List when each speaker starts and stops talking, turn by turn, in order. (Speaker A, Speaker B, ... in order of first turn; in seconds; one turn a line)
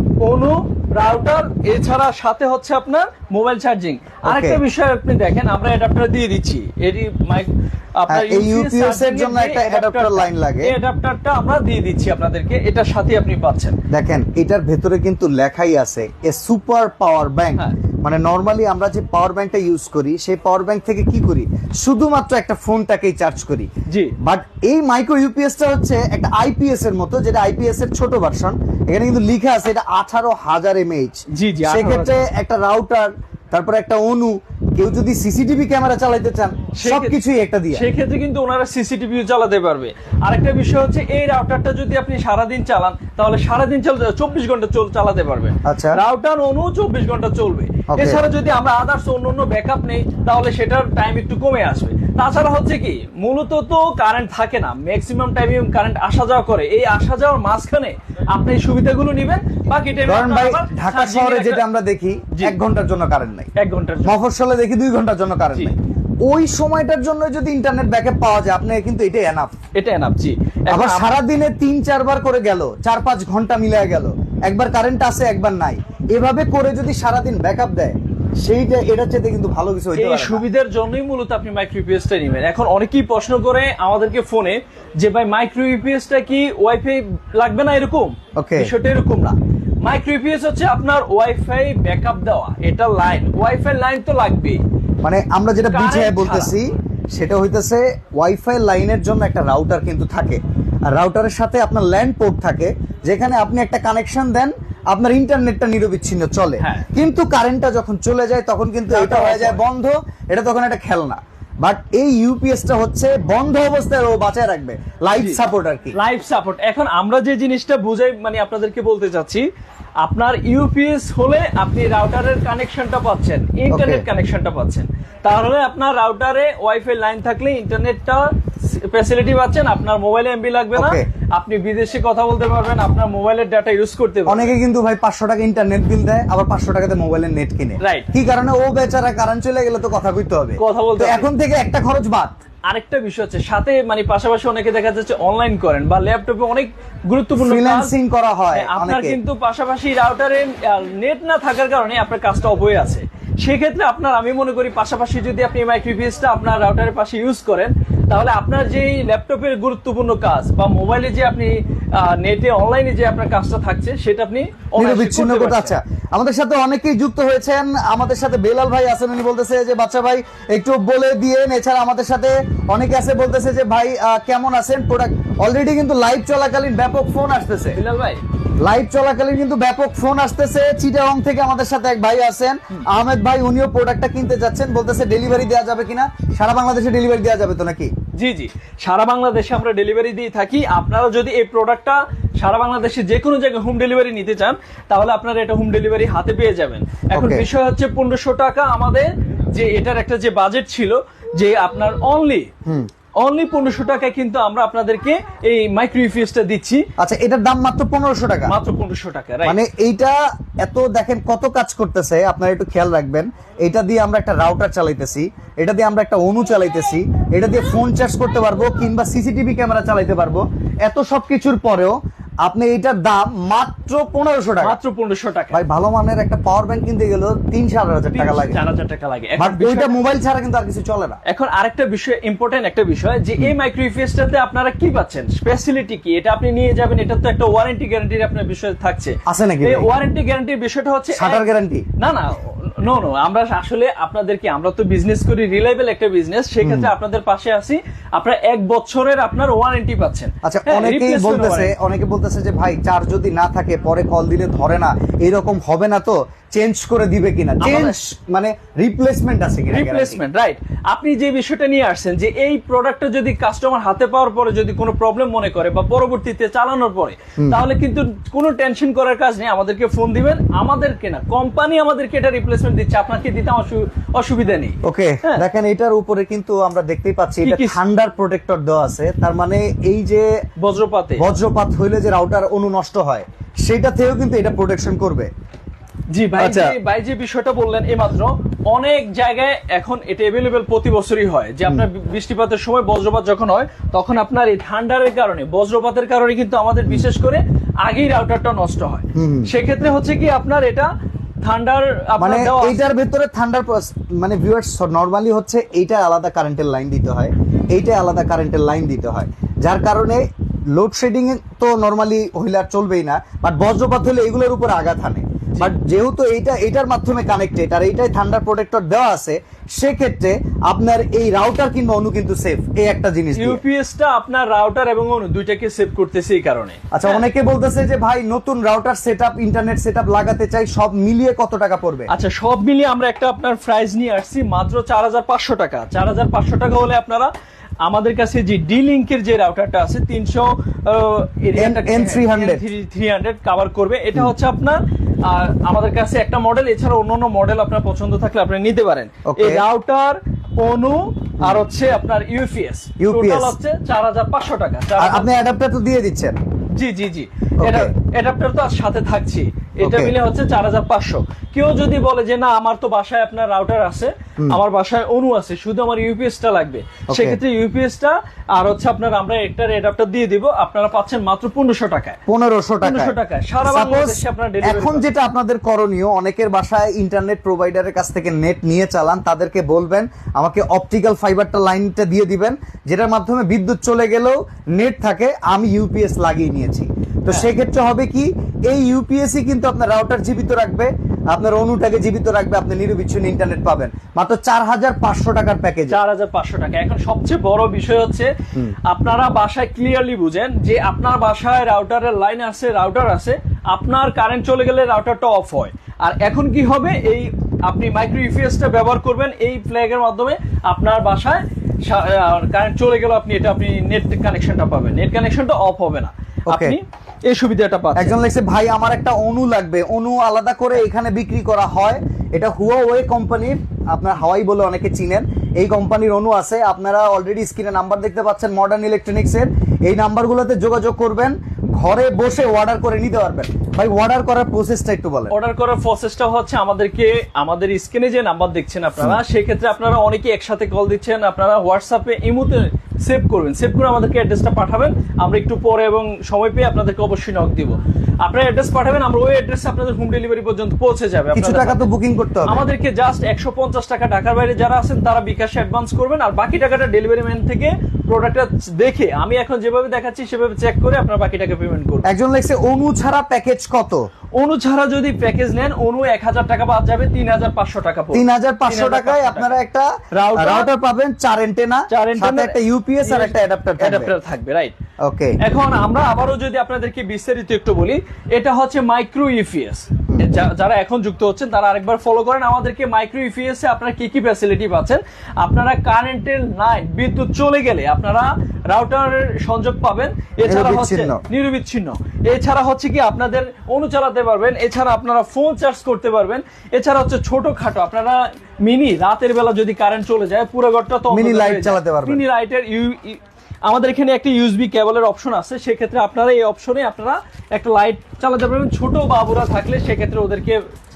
Speaker A: 0.2-13.8
Speaker B: 4.3-4.6
Speaker B: 8.1-10.8
Speaker B: 13.9-23.7
Speaker A: 23.9-24.1
Speaker B: 24.2-37.9
Speaker A: 31.3-32.2
Speaker A: 36.8-37.1
Speaker A: 37.7-61.6
Speaker B: 45.6-46.0
Speaker B: 47.9-48.3
Speaker B: 60.0-63.5
Speaker A: 62.3-62.6
Speaker A: 63.6-64.2
Speaker B: 64.0-69.5
Speaker A: 69.8-71.2
Speaker B: 70.7-80.4
Speaker A: 80.0-94.6
Speaker B: 88.4-88.7
Speaker B: 95.0-116.0
Speaker A: 95.7-96.5
Speaker A: 106.6-106.9
Speaker A: 108.9-109.6
Speaker A: 115.1-115.4
Speaker A: 116.0-119.5
Speaker A: 120.0-134.6
Speaker B: 123.7-124.1
Speaker B: 130.8-131.1
Speaker B: 134.3-142.4
Speaker A: 137.8-138.1
Speaker A: 140.6-141.3
Speaker A: 142.7-147.9
Speaker B: 147.4-149.2
Speaker A: 148.5-165.8
Speaker B: 164.8-177.8
Speaker A: 177.8-178.2
Speaker B: 178.6-187.9
Speaker A: 188.2-202.5
Speaker B: 197.1-197.5
Speaker A: 203.2-206.8
Speaker B: 207.0-208.5
Speaker A: 208.5-209.6
Speaker B: 209.4-224.8
Speaker A: 224.6-225.6
Speaker B: 225.5-228.6
Speaker A: 228.1-230.0
Speaker B: 229.4-231.2
Speaker A: 231.3-241.4
Speaker B: 239.3-239.9
Speaker B: 241.1-241.8
Speaker A: 242.0-251.8
Speaker B: 246.6-246.9
Speaker B: 250.4-260.2
Speaker A: 257.6-258.0
Speaker A: 259.7-275.4
Speaker B: 274.8-280.3
Speaker A: 277.4-277.8
Speaker A: 280.6-281.2
Speaker B: 281.2-285.3
Speaker A: 286.1-300.9
Speaker B: 286.4-286.8
Speaker B: 299.1-299.5
Speaker A: 301.4-302.9
Speaker B: 302.2-323.6
Speaker A: 323.4-327.2
Speaker B: 326.9-332.1
Speaker A: 332.1-337.3
Speaker A: 337.9-355.3
Speaker B: 341.6-342.6
Speaker B: 349.3-349.6
Speaker B: 353.0-353.6
Speaker B: 355.0-356.4
Speaker A: 356.8-372.2
Speaker B: 357.6-357.9
Speaker B: 359.8-360.1
Speaker B: 367.1-367.4
Speaker B: 372.3-396.0
Speaker A: 372.8-375.1
Speaker A: 395.9-398.3
Speaker A: 398.9-418.2
Speaker B: 416.5-416.8
Speaker B: 417.9-435.4
Speaker A: 435.3-451.9
Speaker B: 451.3-452.7
Speaker A: 452.5-462.1
Speaker B: 462.1-464.0
Speaker A: 464.4-469.6
Speaker B: 468.1-474.1
Speaker A: 470.1-470.7
Speaker A: 471.9-474.8
Speaker B: 475.0-475.4
Speaker A: 475.4-510.6
Speaker B: 490.4-491.2
Speaker B: 501.1-502.2